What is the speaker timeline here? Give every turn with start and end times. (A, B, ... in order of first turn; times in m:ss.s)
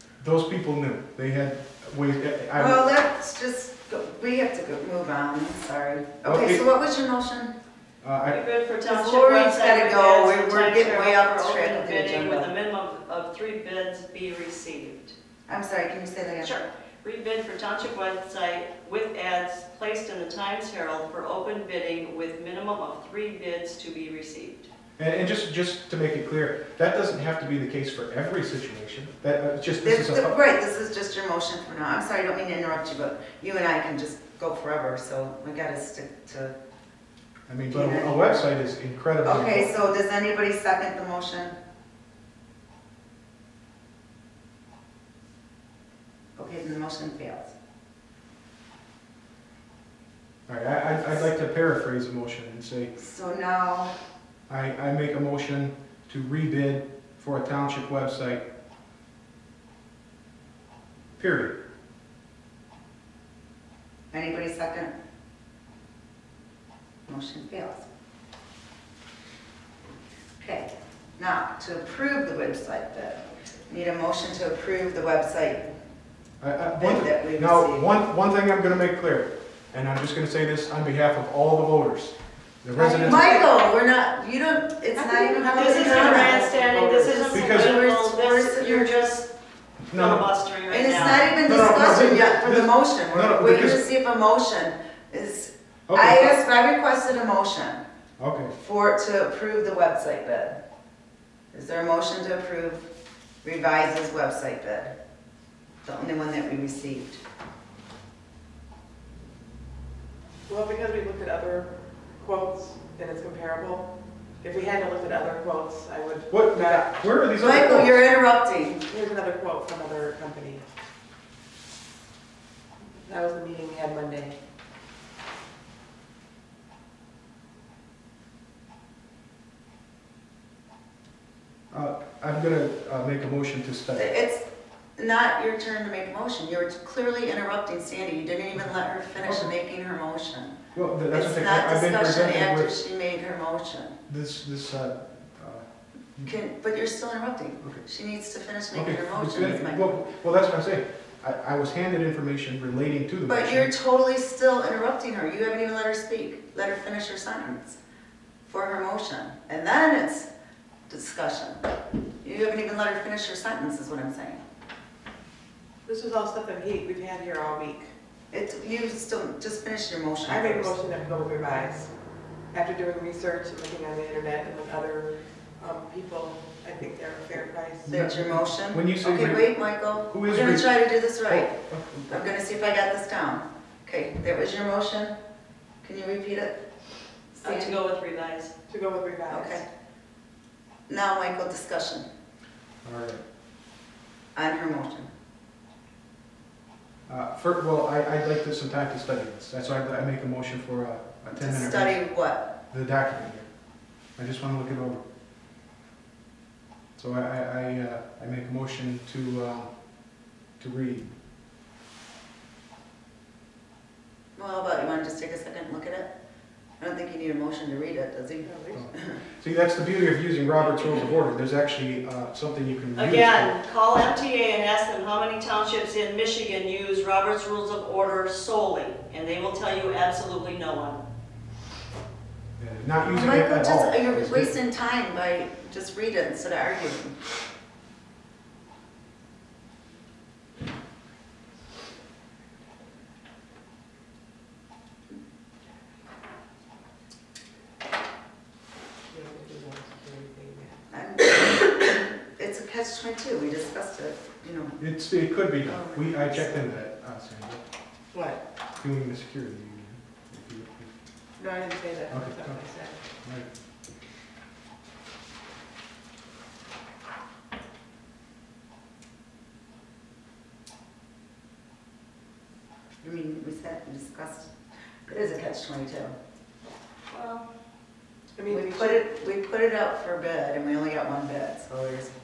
0:00.2-0:02.9 A
0:02.5-0:07.5 B
0:06.2-0:06.6 A
0:08.0-0:08.4 A
0:08.3-0:15.1 C
0:08.8-0:12.5 B
0:15.5-0:16.6 B
0:16.4-0:24.7 C
0:25.0-0:30.3 A
0:29.8-0:36.5 B
0:37.5-0:39.7 A
0:37.7-0:38.5 B
0:39.2-0:41.6 B
0:46.4-0:47.5 B
0:50.5-0:52.9 A
0:53.0-0:53.9 B
0:54.5-0:58.4 A
1:01.2-1:01.6 A
1:04.1-1:04.9 B
1:07.1-1:07.8 B
1:10.4-1:15.7 B
1:16.4-1:23.4 A
1:16.7-1:17.9 B
1:22.8-1:23.4 D
1:22.9-1:26.4 B
1:24.9-1:27.4 D
1:25.5-1:29.3 C
1:27.3-1:27.8 A
1:27.4-1:28.9 B
1:29.9-1:30.3 A
1:29.9-1:31.2 C
1:30.7-1:37.8 B
1:31.2-1:33.8 A
1:35.9-1:36.4 A
1:38.2-1:38.5 A
1:38.5-1:40.6 B
1:41.5-1:42.8 B
1:43.4-1:44.9 B
1:45.8-1:47.2 B
1:50.5-1:53.9 D
1:54.4-1:57.0 D
1:56.3-1:58.0 A
1:57.4-1:58.8 B
1:58.8-2:00.6 D
2:03.0-2:04.4 D
2:11.7-2:14.1 A
2:14.0-2:14.4 B
2:15.0-2:20.6 B
2:19.2-2:19.5 A
2:20.7-2:22.7 A
2:21.1-2:24.0 B
2:24.1-2:26.3 A
2:26.2-2:30.0 B
2:28.7-2:33.7 A
2:33.3-2:37.8 B
2:38.5-2:40.3 B
2:40.9-2:41.6 B
2:42.2-2:44.4 B
2:45.8-2:47.9 D
2:48.3-2:50.7 B
2:50.2-2:51.9 D
2:52.5-2:57.9 D
2:57.8-2:59.5 A
2:57.9-3:01.5 B
3:00.0-3:02.3 A
3:02.1-3:05.2 B
3:05.8-3:06.5 B
3:07.3-3:07.8 B
3:07.4-3:08.5 C
3:08.7-3:09.6 D
3:09.3-3:09.6 B
3:10.9-3:12.1 B
3:12.8-3:13.2 A
3:14.3-3:15.1 B
3:17.1-3:22.0 A
3:21.3-3:22.4 B
3:22.7-3:23.5 A
3:24.2-3:25.0 A
3:27.0-3:29.7 A
3:30.6-3:31.1 A
3:34.4-3:36.1 B
3:36.8-3:39.2 B
3:38.4-3:38.8 D
3:38.7-3:43.5 A
3:43.0-3:51.0 C
3:52.6-3:54.5 A
3:53.1-3:57.2 B
4:09.1-4:10.8 D
4:10.9-4:14.8 B
4:14.8-4:17.6 A
4:15.6-4:16.8 B
4:18.1-4:18.4 D
4:18.8-4:20.9 A
4:21.4-4:23.0 D
4:22.1-4:22.6 A
4:23.2-4:23.5 A
4:33.0-4:34.5 B
4:35.1-4:36.1 B
4:37.1-4:37.4 C
4:38.4-4:39.0 D
4:38.5-4:42.1 B